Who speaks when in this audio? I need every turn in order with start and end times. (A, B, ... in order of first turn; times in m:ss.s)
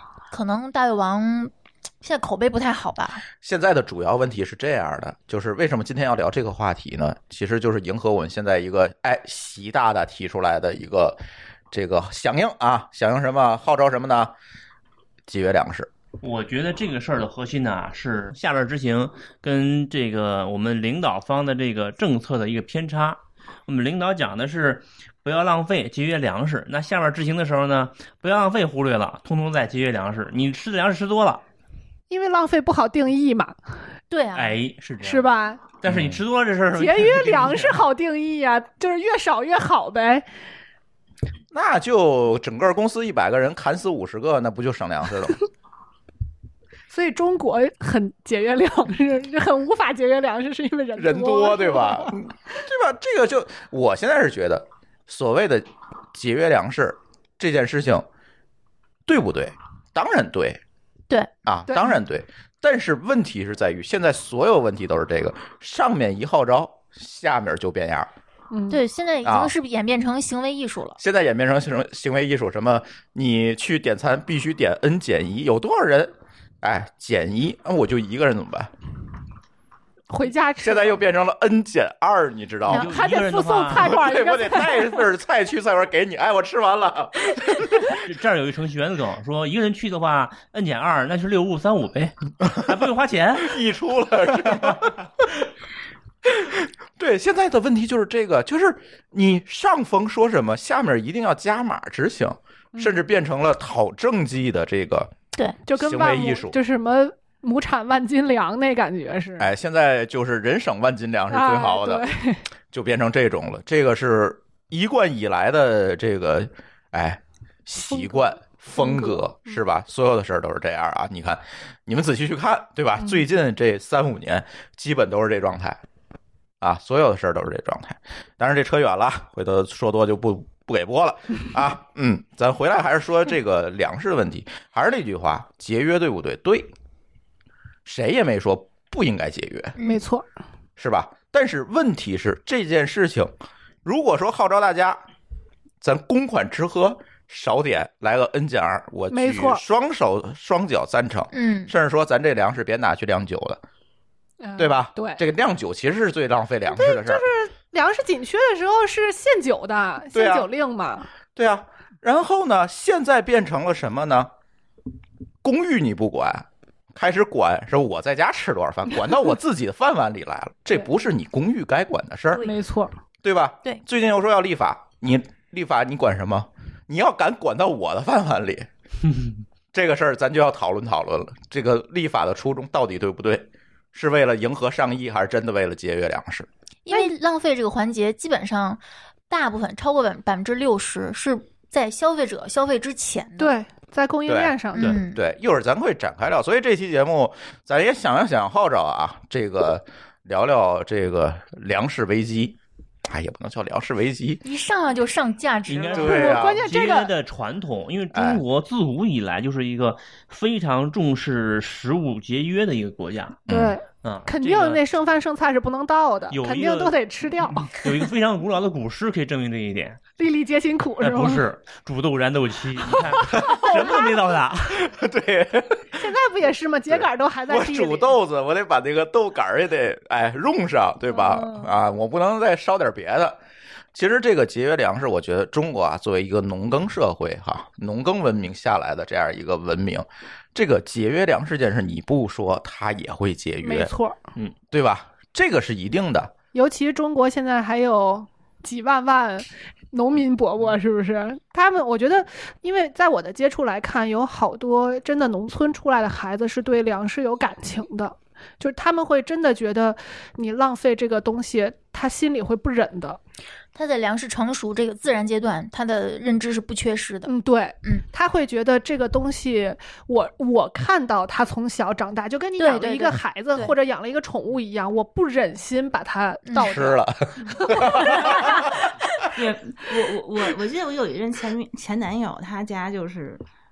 0:00.3-0:03.2 A
0:03.4-0:11.2 B
0:11.7-0:14.3 B
0:15.3-0:15.9 B
0:16.2-0:31.4 C
0:32.1-0:33.6 D
0:34.1-0:34.6 A
0:34.4-0:37.8 C
0:35.0-0:35.6 D
0:35.8-0:36.2 B
0:36.7-0:40.3 D
0:41.5-0:45.4 B
0:46.9-0:52.2 D
0:51.0-0:58.1 B
0:59.1-1:00.6 B
1:01.4-1:08.1 B
1:01.7-1:02.0 D
1:08.5-1:08.8 D
1:08.7-1:11.0 A
1:09.2-1:09.5 B
1:11.0-1:18.7 B
1:20.1-1:21.0 D
1:20.6-1:22.9 B
1:22.7-1:24.0 C
1:22.7-1:25.0 D
1:23.7-1:27.7 B
1:27.9-1:33.6 C
1:33.4-1:35.0 B
1:36.3-1:45.1 B
1:45.7-1:49.5 D
1:45.8-1:46.6 B
1:49.4-1:52.1 B
1:51.3-1:52.4 D
1:52.7-2:05.8 B
1:57.9-1:59.6 D
2:06.6-2:16.7 B
2:17.9-2:19.8 B
2:19.8-2:20.0 A
2:19.8-2:20.3 D
2:20.8-2:23.3 B
2:23.8-2:25.0 B
2:25.8-2:33.6 B
2:29.1-2:29.6 D
2:31.3-2:31.7 A
2:34.4-2:35.2 D
2:34.6-2:37.2 B
2:36.7-2:41.1 D
2:40.1-2:40.5 B
2:41.4-2:44.3 B
2:45.4-2:52.5 B
2:52.3-2:52.9 D
2:53.2-2:58.7 B
2:59.7-3:06.5 B
3:06.8-3:13.5 A
3:13.4-3:15.0 D
3:14.3-3:22.6 B
3:14.8-3:15.2 A
3:23.1-3:24.4 B
3:24.4-3:26.4 A
3:25.7-3:33.4 C
3:25.9-3:27.1 D
3:26.0-3:26.6 B
3:28.1-3:28.4 B
3:33.5-3:33.8 B
3:33.5-3:37.9 D
3:34.0-3:34.8 C
3:36.3-3:40.0 C
3:40.2-3:41.4 D
3:41.0-3:44.9 C
3:43.1-3:44.4 D
3:44.8-3:46.1 B
3:46.0-3:48.2 D
3:46.9-3:53.4 B
3:51.1-3:51.7 D
3:53.9-4:03.9 B
4:03.6-4:04.2 D
4:04.7-4:06.3 B
4:06.5-4:23.2 D
4:23.8-4:27.3 A
4:27.3-4:38.7 D
4:32.6-4:33.7 A
4:36.5-4:36.8 A
4:36.6-4:38.6 B
4:39.4-4:43.4 E